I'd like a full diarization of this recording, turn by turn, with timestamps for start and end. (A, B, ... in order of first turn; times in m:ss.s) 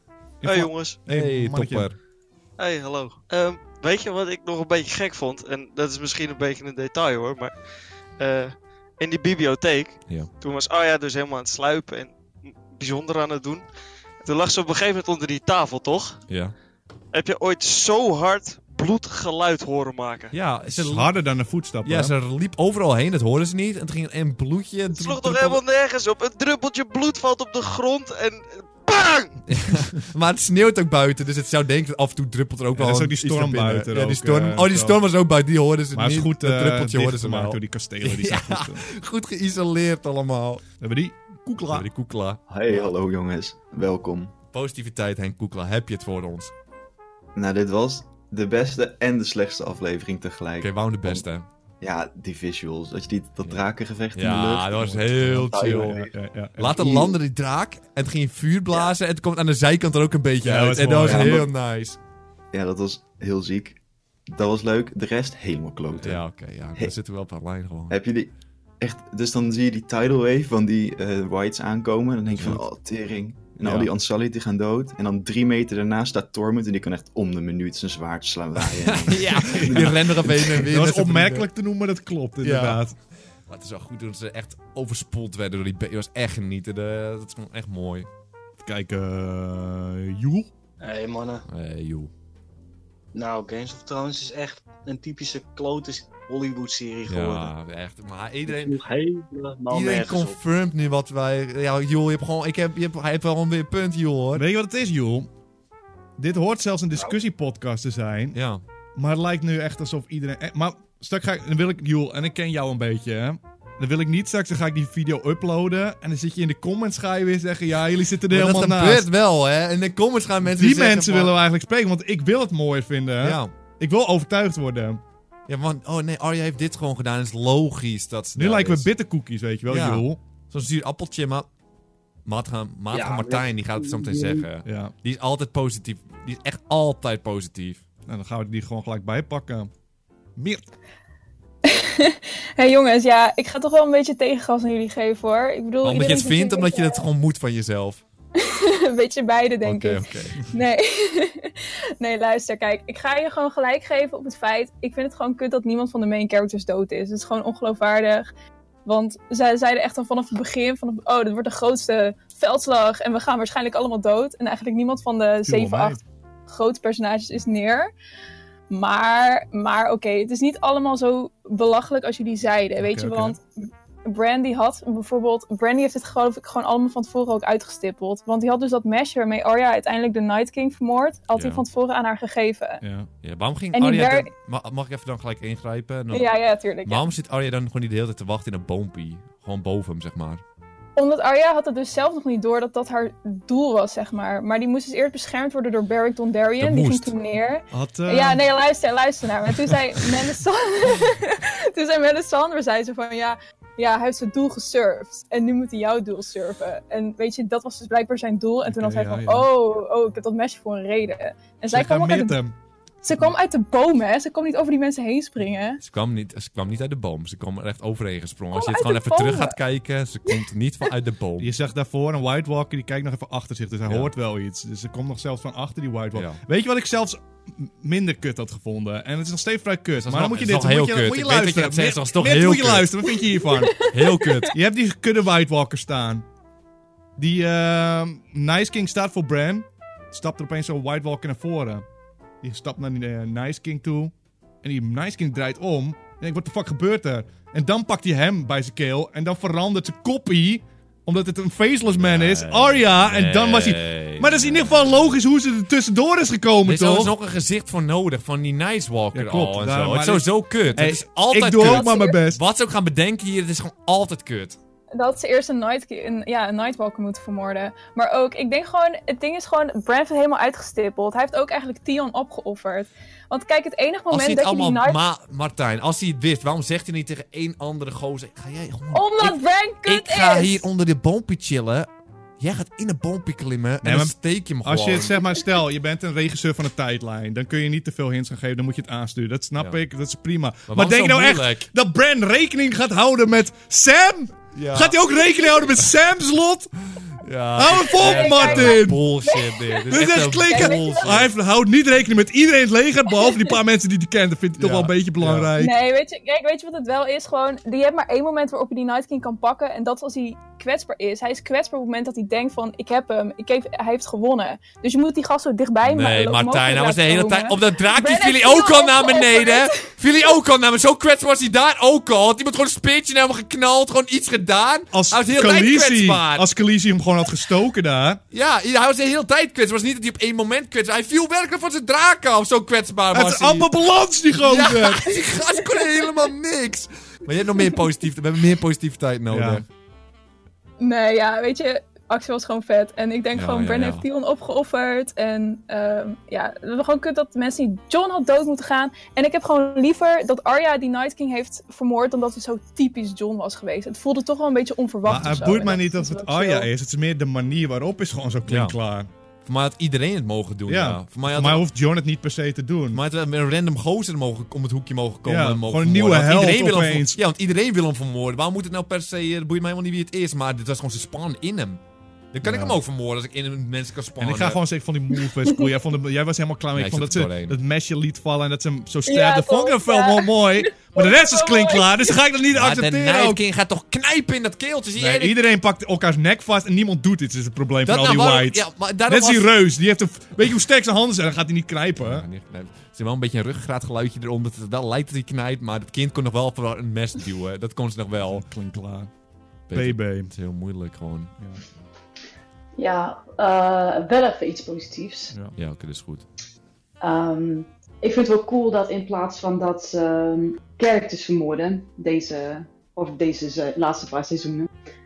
0:00.4-0:01.9 A
0:00.4-0:01.0 B
0:01.1-0:02.0 C
0:02.6-0:07.6 B
0:08.2-0:13.7 B
0:14.2-0:16.2 B
0:16.3-0:16.6 C
0:17.1-0:20.4 B
0:20.3-0:21.2 C
0:20.7-0:22.1 A
0:21.8-0:25.6 C
0:24.9-0:29.4 B
0:29.5-0:40.6 C
0:32.8-0:35.0 A
0:35.9-0:38.8 A
0:40.8-0:41.9 A
0:41.7-0:42.9 C
0:42.5-0:44.3 D
0:44.5-0:46.5 C
0:47.4-0:51.2 D
0:50.6-0:51.5 C
0:51.8-0:56.1 D
0:53.4-1:02.0 C
0:54.7-0:56.8 A
0:56.7-0:57.2 D
1:00.4-1:01.4 A
1:01.1-1:01.5 D
1:02.5-1:06.9 D
1:06.0-1:08.0 C
1:07.9-1:08.3 D
1:08.8-1:20.6 D
1:12.3-1:12.6 C
1:13.6-1:13.9 C
1:18.6-1:21.5 C
1:19.2-1:20.0 A
1:20.5-1:23.0 A
1:22.4-1:22.8 C
1:23.4-1:28.1 C
1:28.6-1:30.5 A
1:30.8-1:31.4 E
1:31.5-1:32.1 C
1:33.1-1:37.5 E
1:37.1-1:38.8 C
1:38.5-1:40.4 E
1:39.7-1:44.4 C
1:44.3-1:45.3 A
1:46.2-1:48.4 A
1:48.3-1:48.6 C
1:49.0-1:59.1 A
1:58.3-2:01.4 C
2:00.4-2:05.0 A
2:03.2-2:03.5 C
2:05.5-2:08.9 C
2:08.4-2:10.2 A
2:09.7-2:11.5 C
2:12.2-2:17.8 C
2:12.9-2:14.4 E
2:14.6-2:14.9 A
2:18.1-2:19.7 A
2:20.4-2:20.6 A
2:21.6-2:27.0 F
2:25.8-2:28.0 C
2:28.4-2:38.3 F
2:29.6-2:30.4 C
2:38.9-2:47.9 F
2:45.4-2:46.0 A
2:48.7-2:53.4 F
2:52.8-2:53.4 A
2:54.1-3:02.8 F
3:01.3-3:01.7 C
3:02.8-3:03.1 A
3:03.2-3:10.4 C
3:03.8-3:04.3 F
3:06.1-3:07.1 F
3:11.0-3:32.4 F
3:16.6-3:17.2 C
3:17.7-3:18.4 A
3:28.6-3:29.5 A
3:31.7-3:32.6 A
3:33.0-3:35.8 F
3:35.8-3:41.5 C
3:38.6-3:39.6 F
3:41.4-3:53.8 A
3:43.9-3:44.1 C
3:50.0-3:53.1 C
3:53.5-3:54.4 F
3:53.9-3:54.5 C
3:54.5-3:56.3 A
3:57.2-4:01.8 A
4:02.4-4:17.1 A
4:11.9-4:14.9 C
4:16.6-4:24.6 C
4:19.1-4:22.4 A
4:21.6-4:22.0 F
4:25.0-4:35.0 F
4:34.1-4:41.9 C
4:38.9-4:40.7 F
4:42.4-4:45.2 C
4:43.8-4:56.7 A
4:49.6-4:49.8 C
4:50.7-4:51.7 C
4:54.5-4:55.2 C
4:57.1-5:01.3 C
4:57.6-4:59.1 A
4:58.0-4:59.9 F
4:59.9-5:05.8 A
5:00.4-5:01.2 F
5:03.2-5:03.5 F
5:04.6-5:05.5 C
5:05.6-5:19.9 F
5:15.8-5:26.5 C
5:24.9-5:28.2 A
5:28.3-5:33.7 C
5:33.1-5:35.2 A
5:34.4-5:39.6 C
5:39.3-5:39.6 A
5:40.8-5:56.7 F
5:43.3-5:44.1 C
5:55.0-5:59.1 A
5:58.5-5:58.8 C
5:59.4-6:01.6 C
6:00.7-6:03.0 A
6:02.9-6:11.8 C
6:05.2-6:07.2 A
6:12.3-6:14.6 C
6:12.4-6:12.8 A
6:14.2-6:23.4 A
6:16.7-6:17.6 C
6:19.1-6:22.1 F
6:22.5-6:25.4 C
6:25.0-6:32.2 A
6:27.8-6:29.6 C
6:32.0-6:38.5 C
6:38.2-6:39.1 A
6:39.7-6:41.3 C
6:39.7-6:40.3 A
6:41.4-6:41.6 A
6:42.8-6:45.4 G
6:45.3-6:45.6 A
6:45.6-6:46.3 C
6:47.0-6:54.7 G